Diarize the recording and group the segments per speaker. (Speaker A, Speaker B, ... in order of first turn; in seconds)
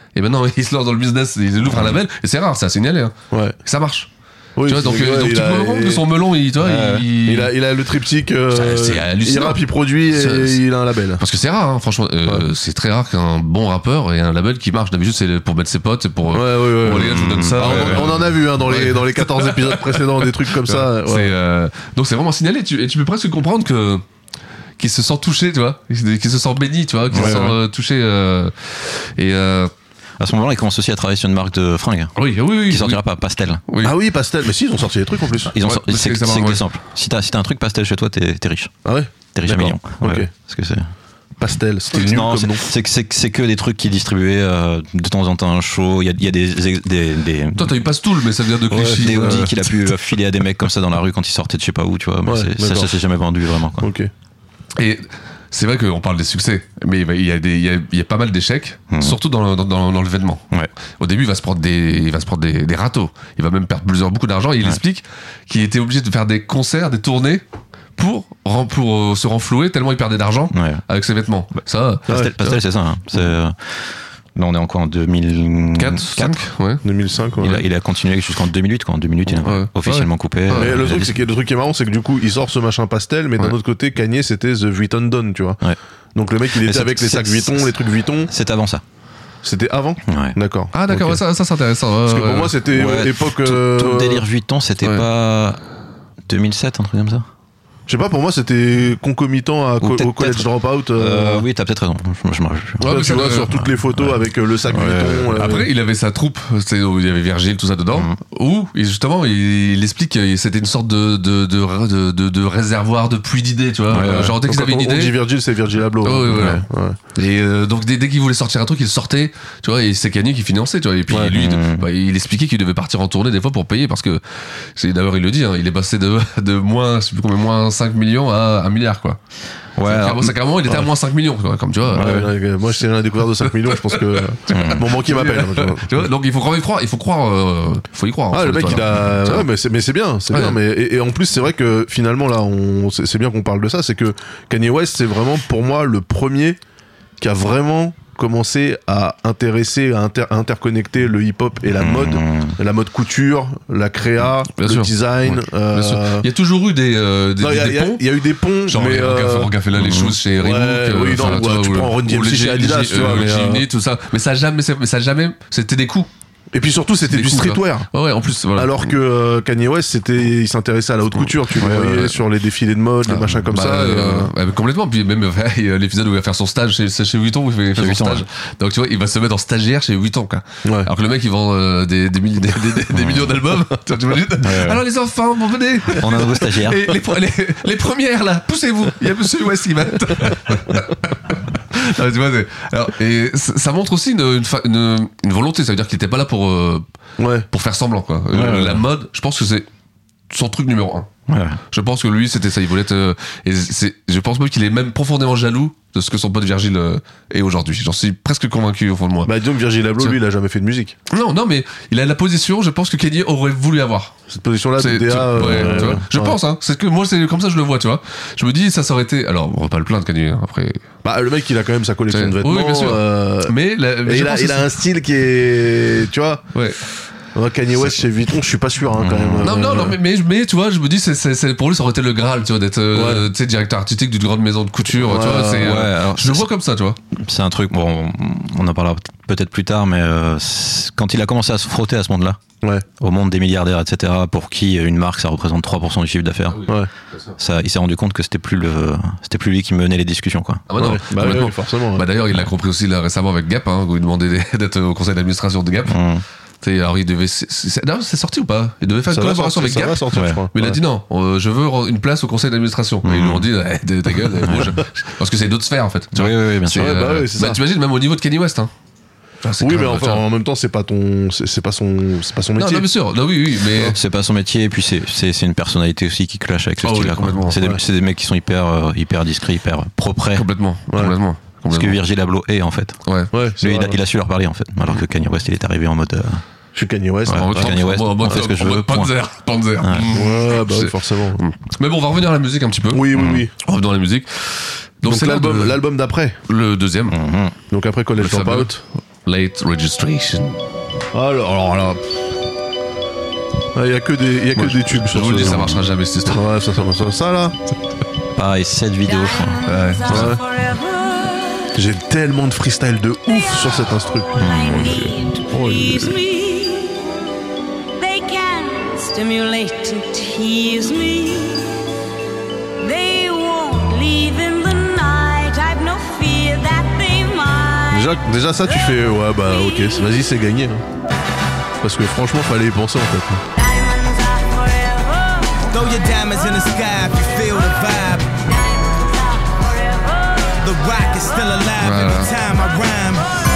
Speaker A: 0.1-3.1, 3.6-4.1, 4.7-7.5, 8.5-10.6, 11.2-24.0, 24.8-29.7, 32.2-33.0, 33.7-34.0, 35.6-36.6, 47.6-49.6, 54.8-60.5, 61.0-67.4, 68.0-72.6, 75.8-76.8, 79.3-80.8, 90.7-92.5, 102.8-103.5, 105.3-115.2, 116.0-116.6, 117.2-124.2, 124.8-129.2, 129.9-132.2, 133.5-139.5, 140.3-140.6, 154.6-158.0, 158.7-166.1, 167.1-168.9, 173.1-196.8, 197.5-199.7, 200.3-201.1, 201.7-209.3, 211.1-214.1, 214.8-220.8, 222.1-224.8, 226.6-226.8, 229.4-237.0, 246.6-247.3, 250.7-256.0, 256.6-268.7, 269.4-270.2, 272.6-274.0, 276.8-277.6, 280.4-282.0, 283.1-283.3, 287.3-295.8, 296.5-297.2, 298.2-300.6, 304.6-306.4, 309.7-310.4, 341.8-342.3
Speaker B: 4.6-6.1, 7.2-11.2, 16.3-21.3, 27.1-27.6, 33.8-35.6, 38.9-40.3, 41.4-42.7, 48.7-49.5, 52.2-53.0, 53.8-54.1, 76.8-77.7, 80.5-85.6, 86.2-88.3, 89.4-91.2, 92.1-94.2, 97.9-101.5, 102.8-105.7, 114.0-117.0, 131.9-136.1, 138.3-146.6, 147.2-156.3, 157.4-159.5, 160.4-163.7, 166.5-167.9, 168.6-174.3, 180.6-180.9, 197.2-197.5, 209.2-210.9, 214.3-216.4, 221.0-226.5, 227.3-230.0, 232.9-233.3, 234.9-235.8, 250.8-252.1, 259.1-260.8, 266.7-267.6, 269.6-272.9, 277.6-277.8, 283.3-284.0, 286.8-287.8, 290.1-291.4, 292.9-293.5, 295.0-296.4, 297.7-298.8, 301.1-302.0, 303.8-307.6, 310.1-310.4, 311.7-316.1, 327.9-330.8, 331.8-333.4
Speaker C: 6.6-7.1, 16.9-18.2, 27.1-27.5, 30.2-33.6, 35.5-38.7, 39.3-40.9, 41.9-47.7, 48.7-53.9, 58.9-59.2, 70.5-70.8, 72.1-73.8, 74.3-76.5, 77.4-81.2, 86.6-87.7, 88.3-88.8, 90.1-90.4, 92.7-95.6, 96.3-97.3, 99.8-105.3, 113.9-114.4, 116.3-116.6, 121.2-121.9, 129.8-130.3, 131.9-132.3, 134.5-134.8, 151.8-152.6, 159.8-160.2, 171.6-172.1, 177.8-178.2, 183.0-183.2, 184.4-184.8, 185.9-186.9, 198.3-198.8, 201.3-201.6, 215.5-216.0, 229.0-229.6, 235.4-236.5, 237.1-242.4, 243.0-246.7, 247.4-250.6, 255.9-256.2, 260.1-260.4, 263.0-263.5, 264.4-264.8, 266.2-267.2, 273.9-280.4, 281.7-283.0, 283.6-286.4, 287.3-289.1, 289.8-290.1, 293.1-293.4, 297.1-297.6, 308.4-309.6, 314.4-315.1
Speaker D: 309.1-311.8, 313.3-317.1, 318.0-321.9, 322.8-330.2, 333.6-335.6, 338.5-340.6
Speaker E: 335.7-338.4, 340.6-343.3